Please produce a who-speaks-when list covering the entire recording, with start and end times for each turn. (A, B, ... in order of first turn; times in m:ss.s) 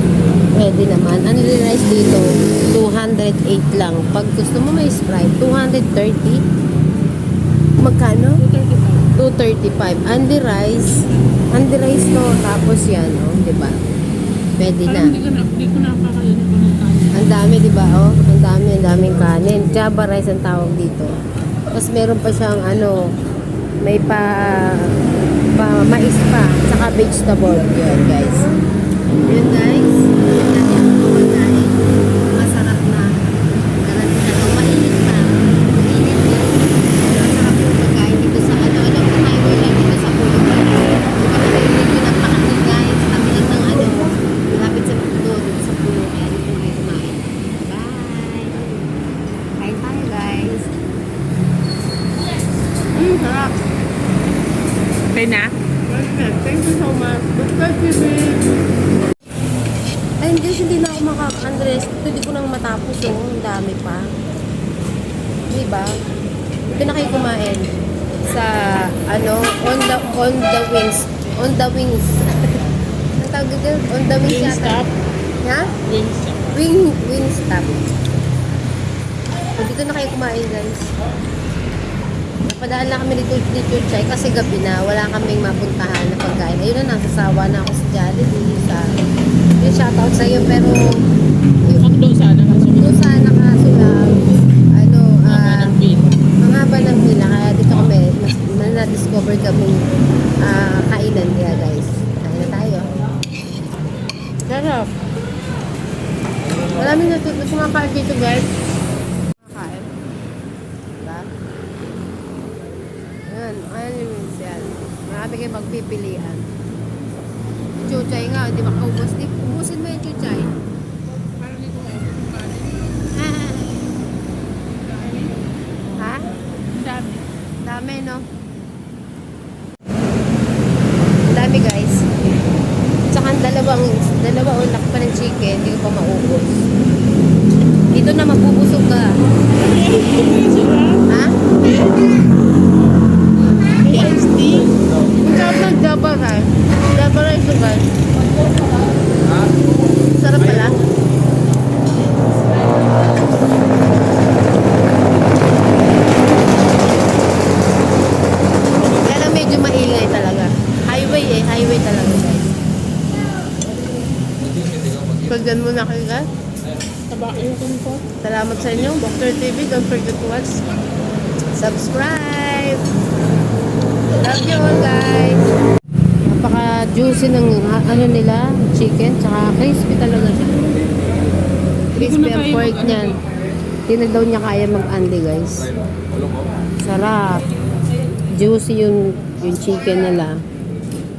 0:00.6-0:06.4 A
0:07.8-0:08.4 A
0:08.4-0:09.1 B
0:09.2-0:10.9 A
0:11.5-0:13.8 A
0:14.6-0:15.2 A
0:14.8-0:17.2 B
0:17.1-0:21.2 A
0:21.7-0:23.0 A
0:23.8-0:25.0 A
0:25.6-0:28.5 A
0:29.2-0:31.8 A
0:32.4-0:33.1 A
0:33.8-0:48.8 A
0:49.6-0:50.7 A
0:53.0-0:53.6 A
0:55.1-0:55.5 B
0:55.9-0:58.4 A
1:00.2-1:04.0 A
1:05.5-1:05.9 A
1:06.8-1:07.7 A
1:08.3-1:12.7 A
1:13.2-1:14.8 A
1:14.2-1:14.9 B
1:15.4-1:15.7 A
1:15.8-1:16.6 B
1:16.5-1:17.8 A
1:19.6-1:20.9 A
1:22.5-1:28.9 A
1:29.6-1:30.8 A
1:31.7-1:33.0 B
1:32.5-1:35.7 A
1:35.2-1:36.2 B
1:36.4-1:39.8 A
1:40.4-1:42.9 A
1:44.5-1:44.9 A
1:46.8-1:48.5 A
1:49.4-1:49.9 A
1:51.0-1:51.3 A
1:53.3-1:56.5 A
1:57.9-2:00.6 A
2:01.4-2:03.0 B
2:03.1-2:03.8 A
2:04.8-2:05.4 B
2:06.0-2:06.4 A
2:06.6-2:07.2 B
2:07.6-2:08.2 A
2:11.3-2:12.1 A
2:13.1-2:16.6 A
2:17.9-2:19.1 A
2:19.6-2:21.0 B
2:21.1-2:21.4 A
2:23.8-2:24.7 B
2:25.2-2:27.8 A
2:30.2-2:30.8 A
2:39.0-2:42.6 A
2:45.3-2:46.3 A
2:47.1-2:48.1 B
2:48.2-2:50.6 A
2:51.6-2:52.8 A
2:54.2-2:55.5 A
2:56.3-3:00.7 A
3:02.0-3:03.2 A
3:02.0-3:03.2 B
3:03.9-3:05.7 A
3:06.8-3:07.4 A
3:08.4-3:10.4 A